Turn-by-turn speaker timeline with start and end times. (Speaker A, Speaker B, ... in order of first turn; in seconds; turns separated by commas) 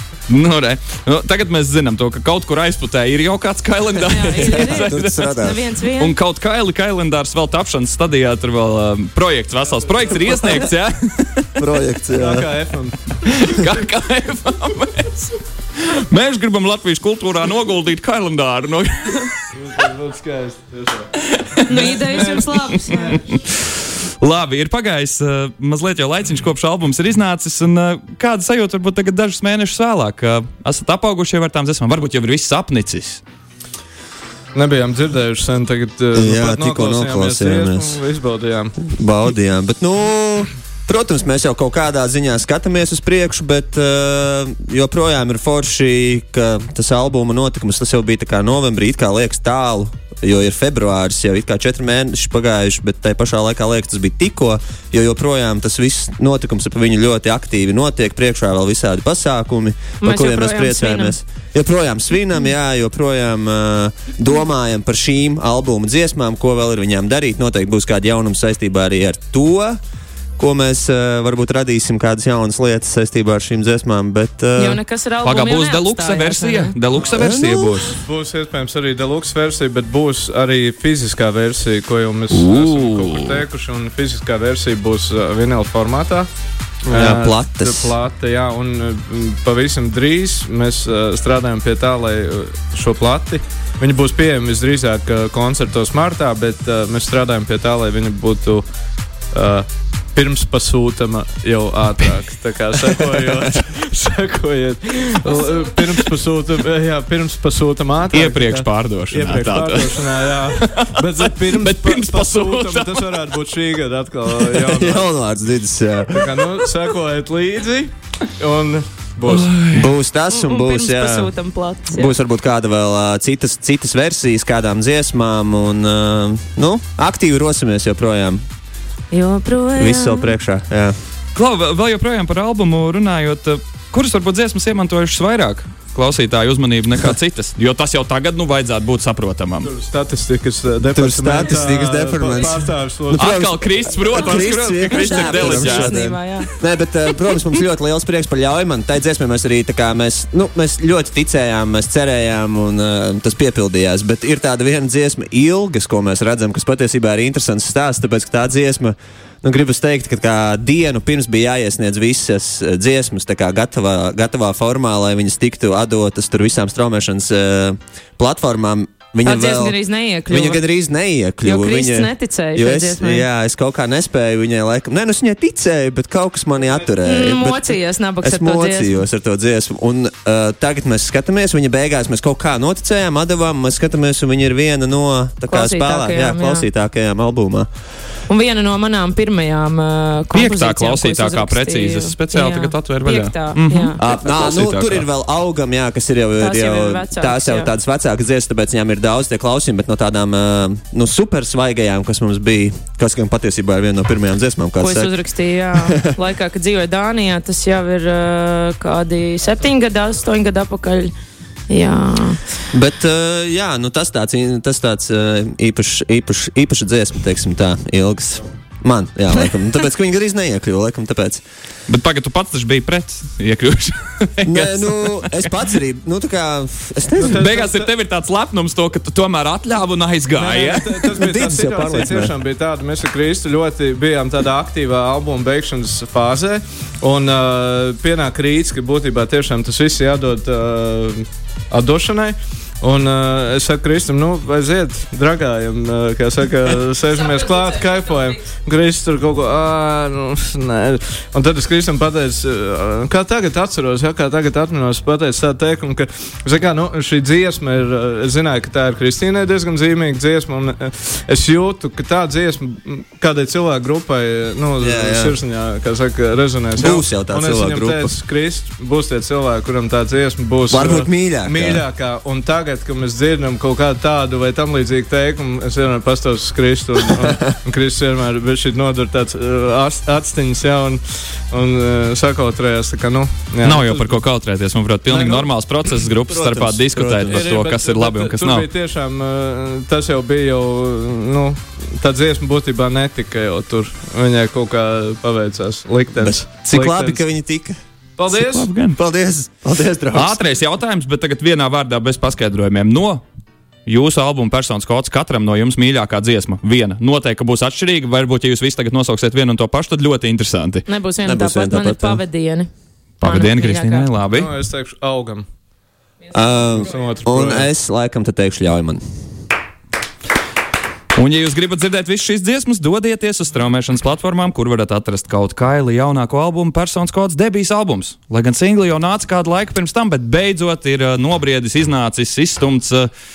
Speaker A: 0.3-5.3, Speaker B: 4.0-6.1, Speaker C: 4.5-5.6, Speaker A: 6.0-11.5, Speaker D: 9.8-10.6, Speaker C: 11.6-12.5, Speaker D: 12.1-13.0, Speaker A: 13.2-19.3, Speaker D: 19.5-21.1, Speaker A: 21.2-22.3, Speaker B: 21.6-23.2, Speaker D: 21.7-23.3, Speaker A: 24.2-33.2, Speaker D: 34.5-38.8, Speaker C: 36.1-38.0, Speaker C: 38.8-69.8, Speaker B: 60.0-61.1, Speaker C: 70.4-74.8, Speaker B: 74.5-76.7, Speaker A: 75.2-78.0, Speaker D: 77.0-77.4, Speaker C: 77.1-77.9, Speaker D: 77.9-86.3, Speaker A: 82.3-83.4, Speaker C: 86.9-87.9, Speaker D: 86.9-98.6, Speaker D: 99.3-115.1, Speaker A: 108.1-113.2, Speaker C: 114.6-116.5, Speaker D: 116.1-119.6, Speaker A: 119.3-119.9, Speaker C: 119.7-121.3, Speaker B: 120.3-122.1, Speaker C: 121.9-128.4, Speaker B: 129.1-130.3, Speaker C: 129.8-130.9, Speaker A: 131.3-139.7, Speaker D: 139.6-143.5, Speaker C: 140.9-169.8, Speaker A: 143.1-145.9, Speaker B: 144.4-146.5, Speaker B: 169.2-170.6, Speaker C: 170.3-187.7, Speaker B: 171.4-173.2, Speaker B: 177.0-178.9, Speaker B: 185.5-186.7, Speaker B: 188.3-194.0, Speaker A: 190.3-195.1, Speaker C: 194.0-205.1, Speaker B: 196.4-197.7, Speaker B: 204.8-211.1, Speaker C: 205.7-206.1, Speaker B: 211.7-212.4, Speaker C: 212.7-221.4, Speaker A: 221.9-225.5, Speaker C: 224.4-227.4, Speaker D: 227.2-227.9, Speaker A: 227.2-231.1, Speaker D: 230.3-284.2, Speaker C: 231.1-232.3, Speaker B: 247.1-248.5, Speaker C: 264.8-265.4, Speaker C: 266.8-268.1, Speaker C: 270.7-271.8, Speaker A: 283.6-288.7, Speaker C: 285.1-285.5, Speaker C: 286.1-287.5, Speaker D: 287.2-297.2, Speaker C: 296.1-297.8, Speaker D: 298.2-298.7, Speaker A: 298.3-299.0, Speaker C: 298.9-300.5, Speaker A: 300.1-303.2, Speaker A: 303.9-310.9, Speaker B: 310.9-312.7, Speaker C: 311.2-312.2, Speaker A: 313.2-314.5, Speaker B: 313.2-314.1, Speaker D: 314.3-315.4, Speaker C: 316.3-319.0, Speaker D: 316.7-317.7, Speaker A: 321.1-333.1